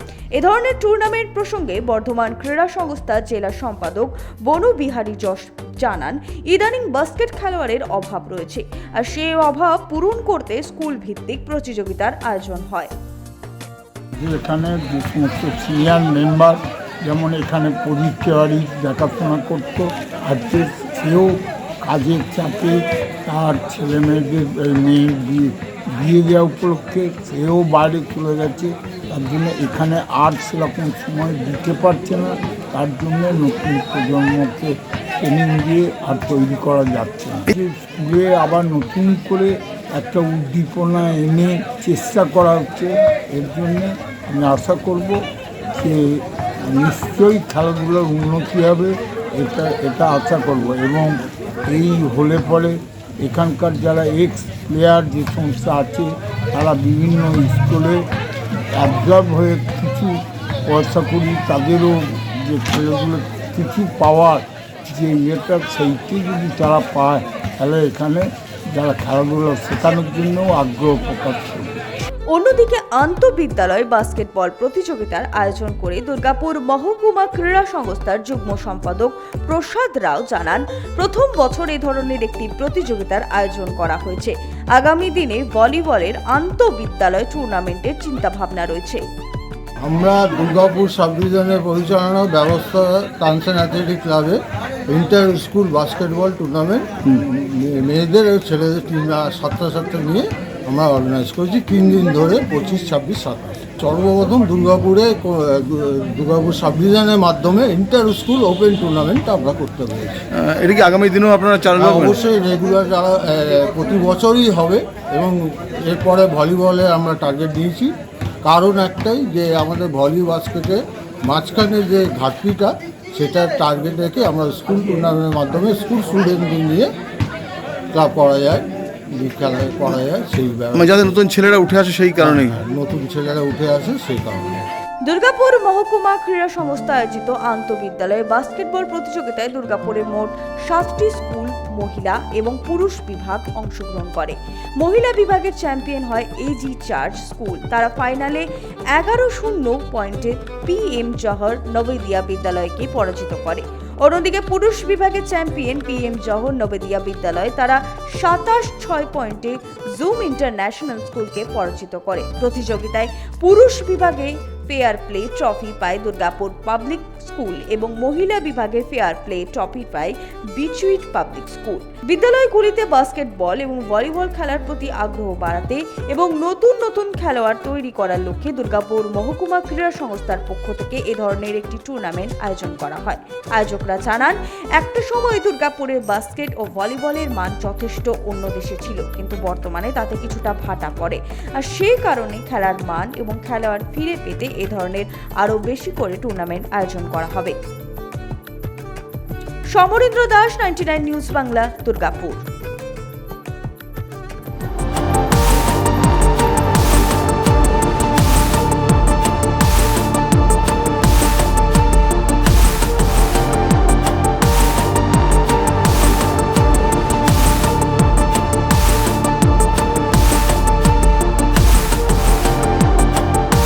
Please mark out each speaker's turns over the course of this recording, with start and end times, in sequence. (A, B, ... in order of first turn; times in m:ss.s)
0:00.4-0:12.9 A
0:14.2-0:45.2 B
0:45.8-0:58.0 B
0:58.7-1:11.8 B
1:12.3-1:29.0 A
1:29.8-1:50.2 C
1:50.3-1:52.2 D
1:51.8-2:06.9 C
2:07.9-2:11.1 C
2:10.7-2:12.6 D
2:12.2-2:14.7 C
2:15.0-3:17.6 A
3:19.7-3:22.4 A